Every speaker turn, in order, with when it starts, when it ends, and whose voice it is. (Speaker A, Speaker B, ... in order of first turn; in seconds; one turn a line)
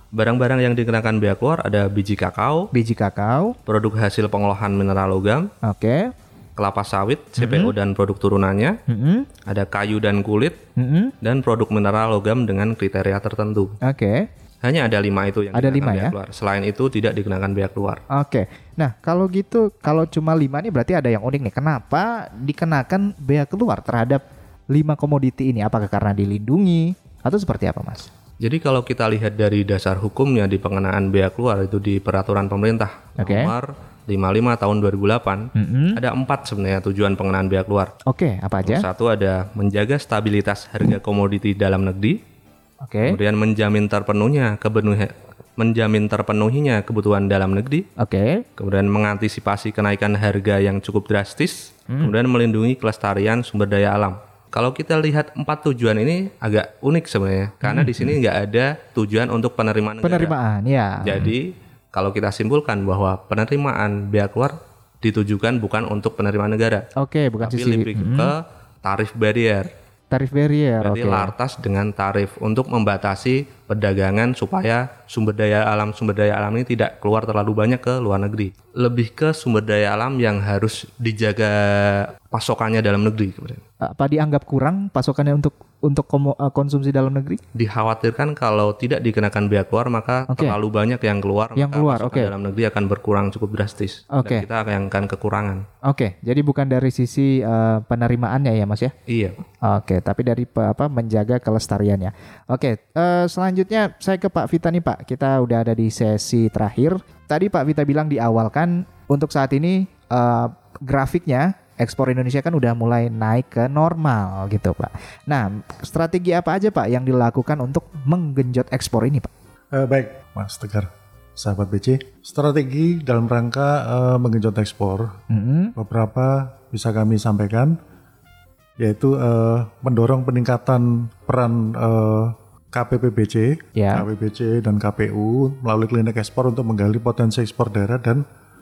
Speaker A: 0.1-2.7
Speaker B: 2.7-3.5
Speaker A: 3.7-5.5
Speaker B: 5.6-6.1
Speaker A: 6.6-8.8
Speaker B: 7.4-7.7
Speaker B: 8.9-9.3
Speaker A: 9.4-10.6
Speaker B: 10.8-11.1
Speaker A: 11.2-13.8
Speaker B: 13.8-14.3
Speaker A: 14.6-18.0
Speaker B: 15.5-16.1
Speaker B: 18.1-28.1
Speaker A: 28.4-38.0
Speaker B: 33.2-33.5
Speaker B: 35.5-36.0
Speaker B: 38.1-38.8
Speaker A: 38.6-42.2
Speaker B: 42.8-43.2
Speaker A: 43.0-47.9
Speaker B: 48.0-48.4
Speaker A: 48.6-60.3
Speaker B: 57.6-58.1
Speaker B: 60.0-61.3
Speaker A: 61.0-66.9
Speaker B: 67.0-68.3
Speaker A: 67.4-69.7
Speaker B: 70.1-71.3
Speaker A: 70.8-83.6
Speaker B: 83.8-87.4
Speaker A: 87.5-95.7
Speaker B: 90.3-90.5
Speaker B: 91.6-92.3
Speaker B: 94.1-94.4
Speaker B: 95.8-98.9
Speaker A: 99.1-99.4
Speaker B: 99.6-119.3
Speaker C: 119.7-125.2
Speaker B: 125.3-125.7
Speaker C: 125.8-127.8
Speaker C: 128.8-138.2
Speaker B: 133.8-134.1